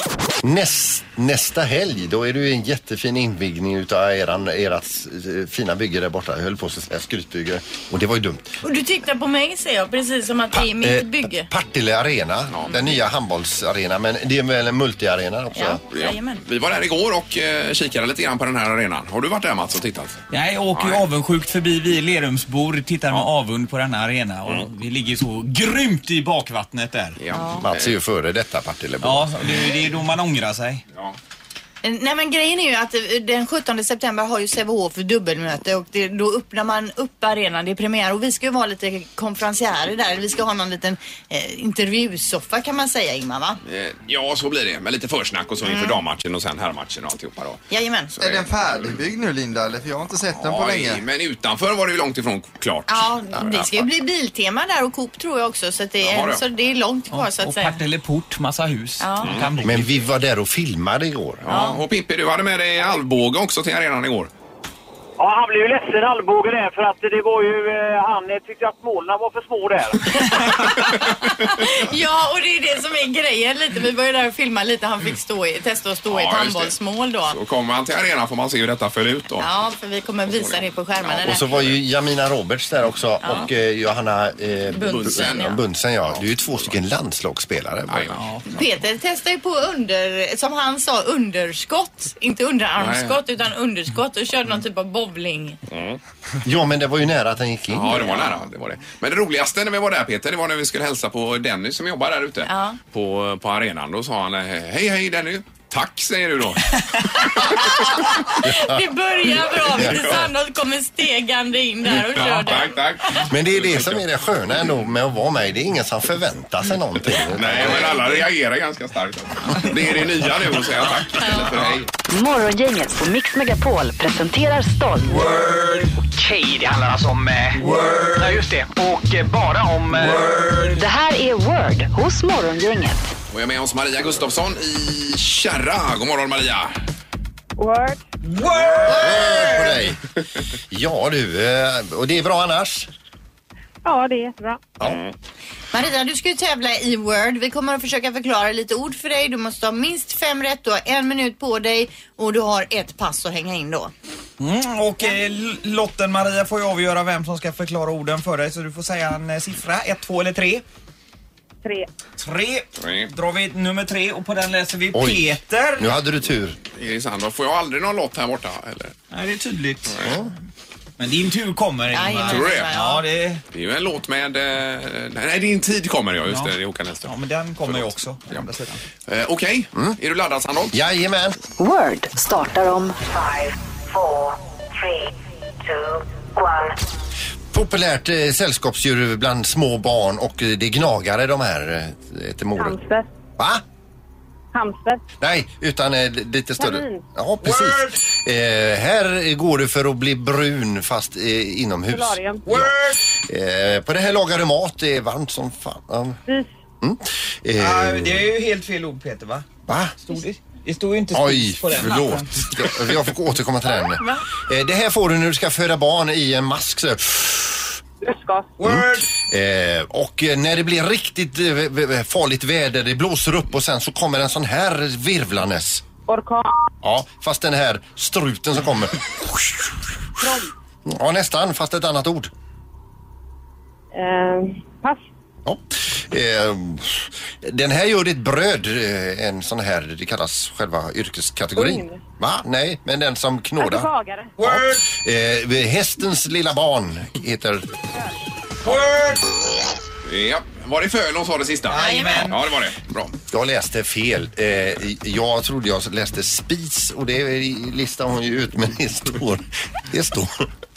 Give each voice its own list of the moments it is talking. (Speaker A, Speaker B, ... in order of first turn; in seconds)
Speaker A: 0.4-8.5, 10.5-15.8, 27.6-29.5, 59.6-61.5, 81.2-88.2, 96.4-98.3, 108.3-108.9, 109.7-110.2, 113.3-118.0, 138.8-140.0, 140.7-142.9, 164.9-166.6, 170.0-170.3, 180.7-181.4, 187.5-192.8, 195.2-206.2, 206.8-208.3, 209.7-209.9, 211.1-217.8, 218.6-225.8, 226.8-229.8, 230.8-232.3, 235.4-247.6, 253.3-260.4
Speaker B: 8.6-11.5, 15.5-16.4, 27.3-27.6, 31.8-43.6, 45.6-46.0, 47.7-48.1, 52.9-57.8, 59.0-59.5, 61.5-61.8, 70.2-77.4, 79.4-81.4, 83.2-83.5, 84.7-85.6, 88.5-95.6, 102.5-102.8, 107.2-112.9, 121.2-121.6, 145.7-153.9, 171.9-173.1, 251.7-252.3
Speaker C: 12.5-12.8, 15.9-20.2, 20.7-21.0, 27.2-28.0, 43.6-47.6, 48.1-48.5, 50.3-53.9, 56.0-56.4, 61.4-64.3, 76.0-79.5, 80.3-81.8, 84.9-86.8, 87.9-88.2, 92.8-93.2, 95.7-96.0, 97.7-107.9, 109.7-110.3, 111.8-114.0, 117.1-121.9, 133.3-136.7, 144.8-145.1, 162.8-163.1, 166.7-168.9, 169.9-170.1, 172.3-172.7, 173.5-178.4, 179.1-180.7, 250.1-253.1
Speaker D: 20.3-27.2, 29.0-30.8, 57.1-59.9, 88.2-88.6, 127.7-128.4, 130.0-130.7, 138.2-139.8, 154.4-160.6, 162.2-165.9, 169.1-170.0, 171.0-173.4, 176.2-178.8, 197.4-198.0, 202.4-203.0, 207.6-209.5, 210.0-212.8, 218.6-219.1, 244.4-244.8, 248.6-249.3, 251.7-252.3
Speaker E: 48.2-51.0
Speaker F: 65.2-70.0
Speaker G: 122.1-125.2, 130.7-133.0, 181.6-184.2, 185.8-186.6
Speaker H: 125.2-130.6
Speaker I: 137.6-138.0, 143.8-144.6, 161.6-161.9, 192.6-193.1, 194.5-195.0, 196.6-197.0, 201.9-202.4, 218.0-218.5, 226.1-226.5, 233.9-235.0, 241.6-242.0, 243.6-244.3